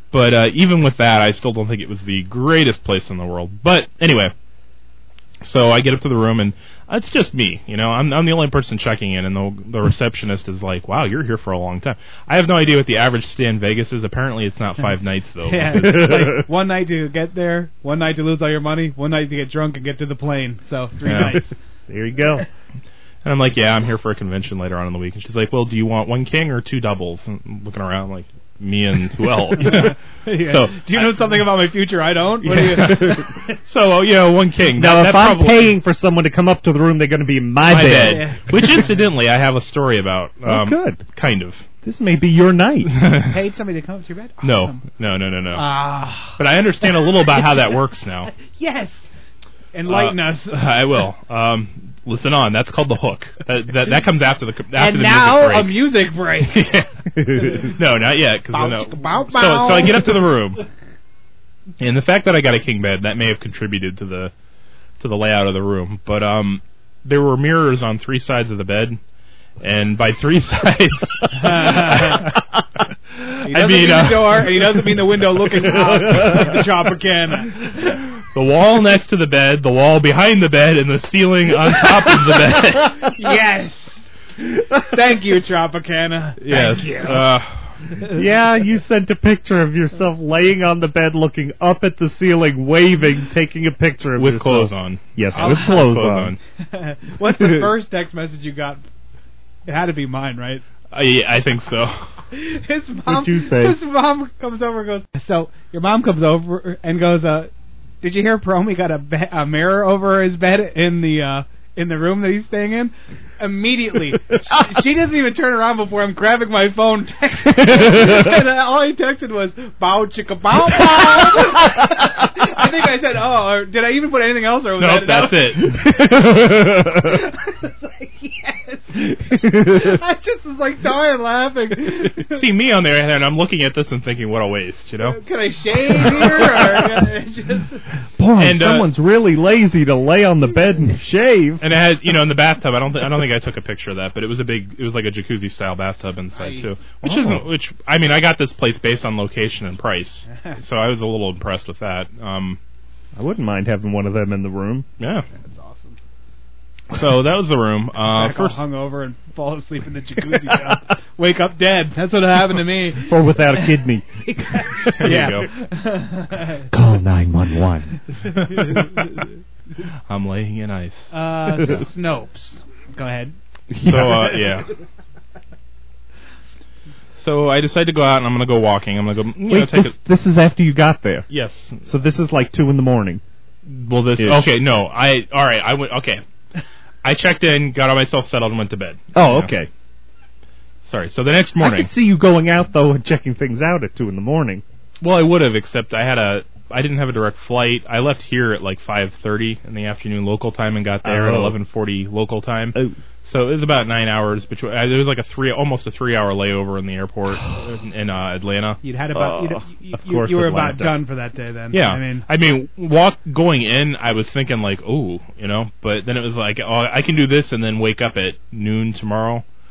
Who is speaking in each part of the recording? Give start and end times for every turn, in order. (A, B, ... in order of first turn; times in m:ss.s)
0:00.1-0:04.3 A
0:05.4-0:16.4 A
0:15.4-0:21.5 B
0:15.9-0:16.3 C
0:21.0-0:21.4 A
0:21.1-0:22.4 C
0:23.2-0:31.5 A
0:29.6-0:33.3 B
0:32.5-0:35.8 A
0:32.6-0:33.3 C
0:34.8-0:38.8 C
0:37.6-0:41.6 A
0:37.9-0:38.8 B
0:40.5-0:41.0 C
0:41.8-0:43.0 C
0:42.9-0:43.4 A
0:43.3-0:44.8 B
0:44.4-0:48.4 A
0:45.5-0:46.4 B
0:48.4-0:49.1 B
0:49.7-0:50.7 B
0:49.9-1:00.6 A
0:54.8-0:56.6 B
0:57.2-0:57.6 C
0:58.5-1:00.2 B
1:01.8-1:04.3 A
1:05.0-1:09.0 A
1:09.6-1:12.4 A
1:11.3-1:12.3 B
1:13.2-1:15.0 A
1:13.4-1:18.0 B
1:15.7-1:16.5 C
1:18.3-1:23.1 A
1:23.0-1:27.2 B
1:26.4-1:27.8 A
1:28.1-1:36.3 C
1:34.2-1:36.4 A
1:35.4-1:35.9 B
1:36.6-1:38.8 B
1:37.2-1:37.7 C
1:39.6-1:40.6 B
1:40.9-1:42.1 A
1:42.3-1:47.5 B
1:43.0-1:43.8 C
1:48.0-2:12.4 B
1:57.8-1:58.2 C
2:04.8-2:05.8 A
2:05.9-2:07.2 C
2:12.2-2:15.2 A
2:15.0-2:17.9 B
2:16.0-2:16.8 A
2:18.2-2:21.6 C
2:18.4-2:18.9 A
2:21.6-2:32.6 A
2:26.3-2:26.7 B
2:27.0-2:27.4 C
2:30.3-2:30.6 B
2:33.2-2:34.9 C
2:35.0-2:35.2 A
2:35.3-2:36.0 B
2:36.9-2:38.6 A
2:38.1-2:46.7 B
2:43.0-2:45.3 C
2:45.0-2:45.5 A
2:46.7-2:48.0 C
2:48.5-2:48.8 B
2:48.6-2:48.8 A
2:50.1-2:51.8 A
2:51.1-2:53.3 B
2:53.7-2:54.4 C
2:53.8-2:54.7 A
2:57.2-3:00.0 A
2:59.5-3:01.3 C
3:01.3-3:02.0 A
3:01.8-3:03.2 C
3:03.6-3:06.2 A
3:04.2-3:04.5 C
3:07.0-3:09.5 A
3:09.1-3:09.7 C
3:10.8-3:11.9 A
3:11.6-3:14.6 C
3:15.0-3:28.8 A
3:21.0-3:21.6 C
3:28.8-3:32.2 B
3:29.1-3:31.0 C
3:31.7-3:39.4 A